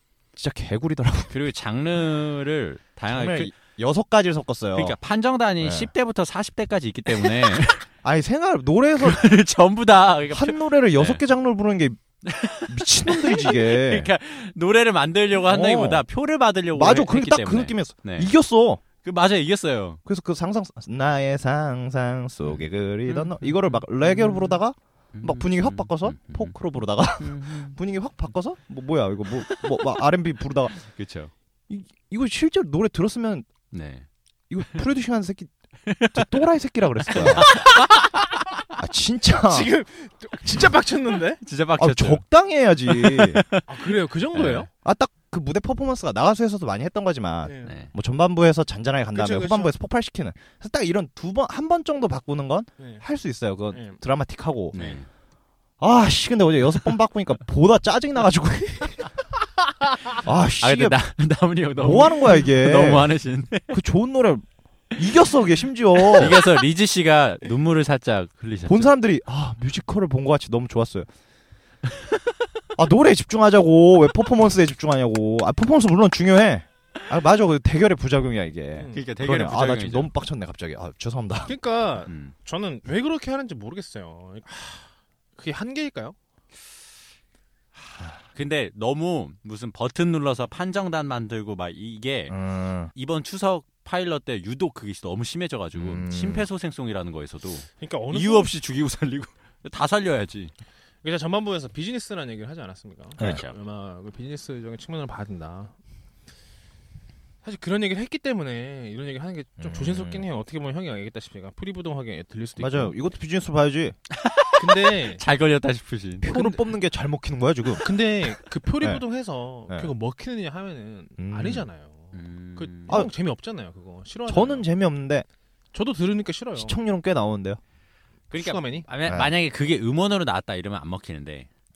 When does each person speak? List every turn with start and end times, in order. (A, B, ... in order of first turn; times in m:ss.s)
0:00.4-0:01.4 A
0:01.3-0:03.6 B
0:03.1-0:05.0 A
0:04.8-0:07.9 B
0:05.6-0:05.9 A
0:07.4-0:09.3 A
0:09.0-0:11.2 B
0:10.3-0:12.0 A
0:12.2-0:18.3 B
0:12.7-0:14.1 A
0:15.4-0:16.0 A
0:16.7-0:18.8 A
0:19.0-0:20.0 B
0:20.1-0:30.8 A
0:22.4-0:24.6 B
0:25.1-0:26.6 B
0:27.2-0:27.8 B
0:29.4-0:29.9 B
0:30.8-0:31.3 B
0:31.7-0:33.5 A
0:33.7-0:34.1 B
0:34.5-0:35.5 A
0:35.9-0:36.4 B
0:36.1-0:37.6 A
0:37.1-0:38.2 B
0:38.8-0:39.7 A
0:39.4-0:41.4 C
0:41.4-0:42.2 B
0:41.8-0:43.4 A
0:42.9-0:44.6 B
0:43.7-0:44.7 C
0:44.4-0:54.8 A
0:47.4-0:47.8 C
0:47.6-0:47.9 B
0:49.1-0:49.7 C
0:52.8-0:53.0 C
0:53.7-0:54.0 C
0:54.7-0:55.1 B
0:54.8-0:55.0 C
0:55.8-0:59.1 A
1:00.2-1:01.0 A
1:00.6-1:03.8 B
1:01.8-1:03.1 A
1:03.7-1:06.4 A
1:06.0-1:08.9 B
1:08.7-1:11.1 A
1:12.8-1:21.6 A
1:18.7-1:19.0 C
1:18.9-1:20.1 B
1:21.4-1:26.2 C
1:22.1-1:22.4 B
1:28.3-1:32.4 B
1:32.3-1:32.9 A
1:32.9-1:40.5 B
1:35.8-1:36.5 A
1:37.8-1:38.5 C
1:41.0-1:45.8 C
1:43.2-1:43.6 B
1:47.4-1:53.1 C
1:49.6-1:50.2 A
1:52.6-1:54.0 A
1:54.1-1:56.6 B
1:54.6-1:55.2 C
1:56.2-1:57.8 A
1:57.8-2:04.7 C
2:01.2-2:01.7 A
2:02.1-2:03.1 B
2:04.3-2:05.3 A
2:05.7-2:06.8 C
2:06.6-2:07.6 A
2:08.3-2:11.5 B
2:08.3-2:08.9 C
2:09.1-2:09.3 A